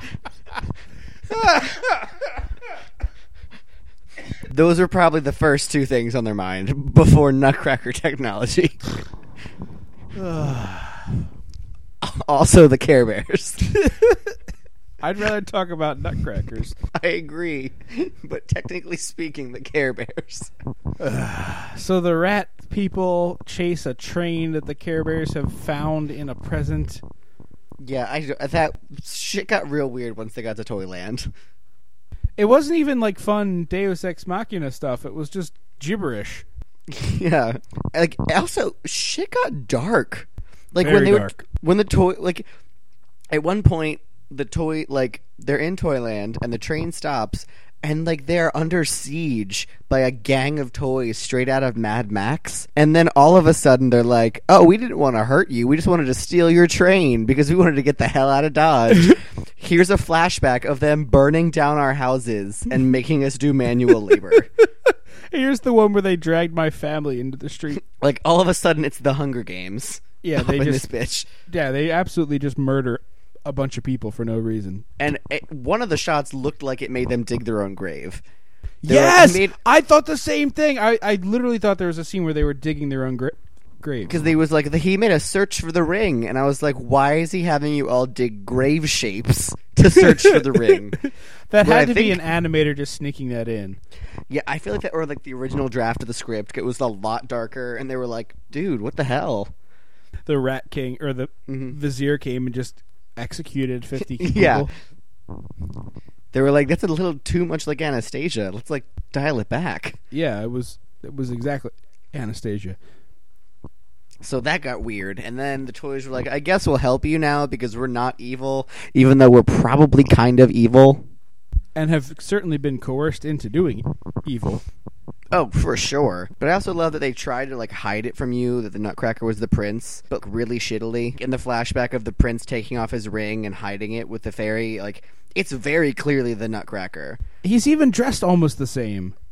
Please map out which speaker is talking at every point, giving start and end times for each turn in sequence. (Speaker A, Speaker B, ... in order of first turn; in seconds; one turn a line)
Speaker A: 1.3-2.0
Speaker B: 4.5-8.9
Speaker A: 10.2-11.2
Speaker B: 12.0-13.7
Speaker A: 13.7-14.3
Speaker A: 15.0-16.8
Speaker B: 16.9-20.5
Speaker A: 21.0-27.0
Speaker B: 27.8-31.3
Speaker A: 32.4-36.5
Speaker B: 36.9-42.5
Speaker A: 40.8-41.4
Speaker B: 43.3-64.5
Speaker A: 64.9-67.8
Speaker B: 67.9-71.3
Speaker A: 70.2-70.9
Speaker A: 71.5-74.9
Speaker B: 75.0-78.2
Speaker A: 78.8-84.2
Speaker B: 78.8-79.5
Speaker B: 84.1-91.0
Speaker A: 90.0-93.8
Speaker B: 91.6-92.2
Speaker B: 94.3-99.5
Speaker A: 100.3-104.7
Speaker B: 101.5-101.8
Speaker B: 104.1-104.7
Speaker B: 106.3-110.0
Speaker A: 110.1-112.8
Speaker B: 114.2-121.0
Speaker A: 121.8-124.6
Speaker B: 125.3-137.2
Speaker A: 137.4-139.2